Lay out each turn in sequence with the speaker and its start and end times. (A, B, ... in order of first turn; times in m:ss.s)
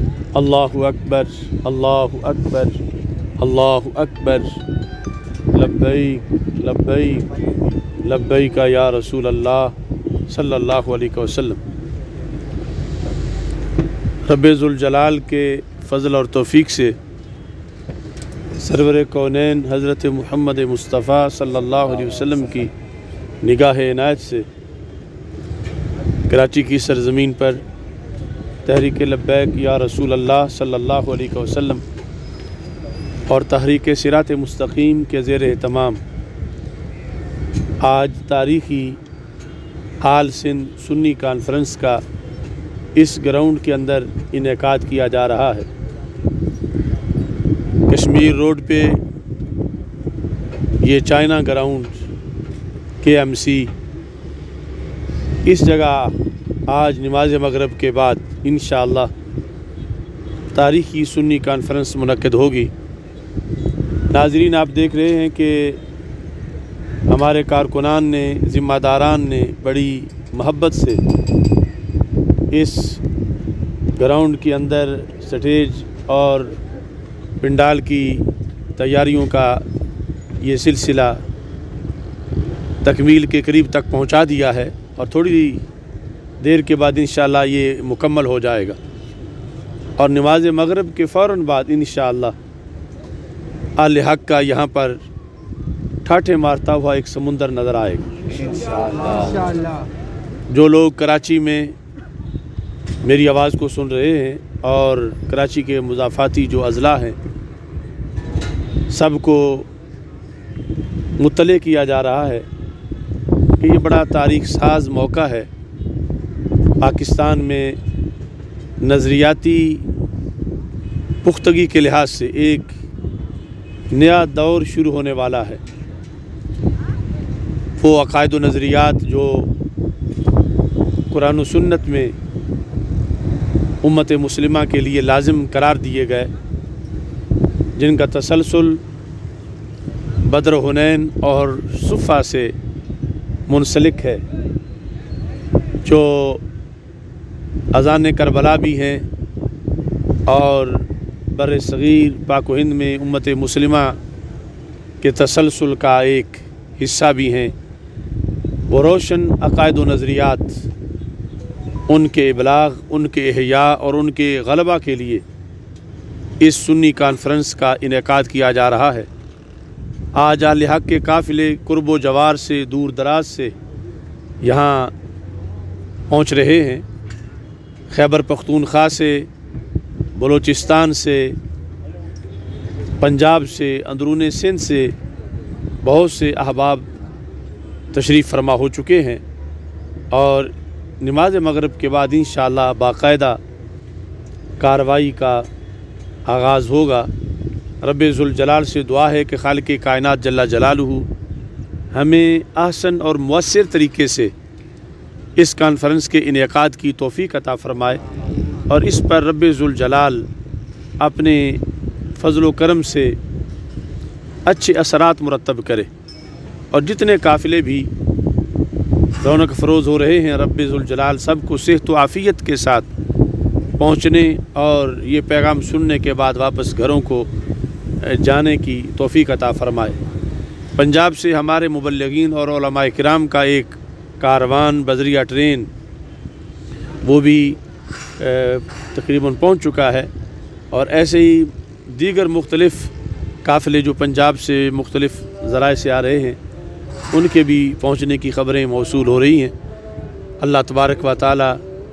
0:00.3-0:02.8 A
0:03.4-0:04.6 A
0:05.5-0:07.3 A
0:08.0-0:09.7 A
0:10.3-0:11.6 A
0:14.2-0:17.0 A
0:18.6-0:22.7 A
0:23.4-0:24.5 A
0:26.3-0:27.6 A
0:28.6-0:31.8 A
0:33.3-0:36.0 A
0:37.8-0:39.0 A
0:40.0-0:42.0 A
0:42.9-0:45.7 A
0:47.9-0:49.0 A
0:50.8-0:52.0 A
0:53.0-0:53.7 A
0:55.4-0:56.2 A
0:56.7-0:59.1 A
1:00.5-1:02.7 A
1:04.1-1:05.8 A
1:07.1-1:11.0 A
1:12.5-1:13.0 A
1:14.0-1:16.6 A
1:17.4-1:19.6 A
1:20.4-1:21.2 A
1:22.8-1:25.6 A
1:26.4-1:28.8 A
1:30.0-1:32.3 A
1:33.8-1:35.0 A
1:36.0-1:38.1 A
1:38.8-1:39.5 A
1:40.5-1:41.7 A
1:43.0-1:47.2 A
1:48.9-1:49.7 A
1:51.2-1:52.4 A
1:53.6-1:55.5 A
1:56.8-1:57.8 A
1:58.8-1:59.9 A
2:01.2-2:02.7 A
2:03.9-2:05.6 A
2:07.8-2:09.5 A
2:11.1-2:12.1 A
2:13.8-2:16.3 A
2:17.7-2:18.8 A
2:20.2-2:22.5 A
2:23.5-2:24.2 A
2:25.8-2:26.4 A
2:27.7-2:29.0 A
2:30.3-2:34.0 A
2:35.0-2:37.5 A
2:38.7-2:40.6 A
2:41.9-2:45.2 A
2:46.4-2:49.1 A
2:50.1-2:53.5 A
2:54.4-2:54.9 A
2:56.1-2:56.8 A
2:57.9-2:59.3 A
3:00.1-3:01.4 A
3:03.0-3:04.9 A
3:05.8-3:06.9 A
3:07.9-3:09.2 A
3:10.1-3:13.4 A
3:14.6-3:15.5 A
3:16.3-3:17.1 A
3:17.8-3:21.1 A
3:21.9-3:24.3 A
3:25.4-3:28.0 A
3:28.7-3:30.3 A
3:31.0-3:31.6 A
3:32.2-3:33.2 A
3:34.4-3:35.9 A
3:36.7-3:37.9 A
3:39.2-3:42.9 A
3:43.8-3:47.3 A
3:48.0-3:50.0 A
3:50.8-3:55.7 A
3:57.0-3:57.6 A
3:58.2-4:00.1 A
4:00.7-4:02.9 A
4:03.4-4:06.4 A
4:07.1-4:09.5 A
4:10.4-4:11.6 A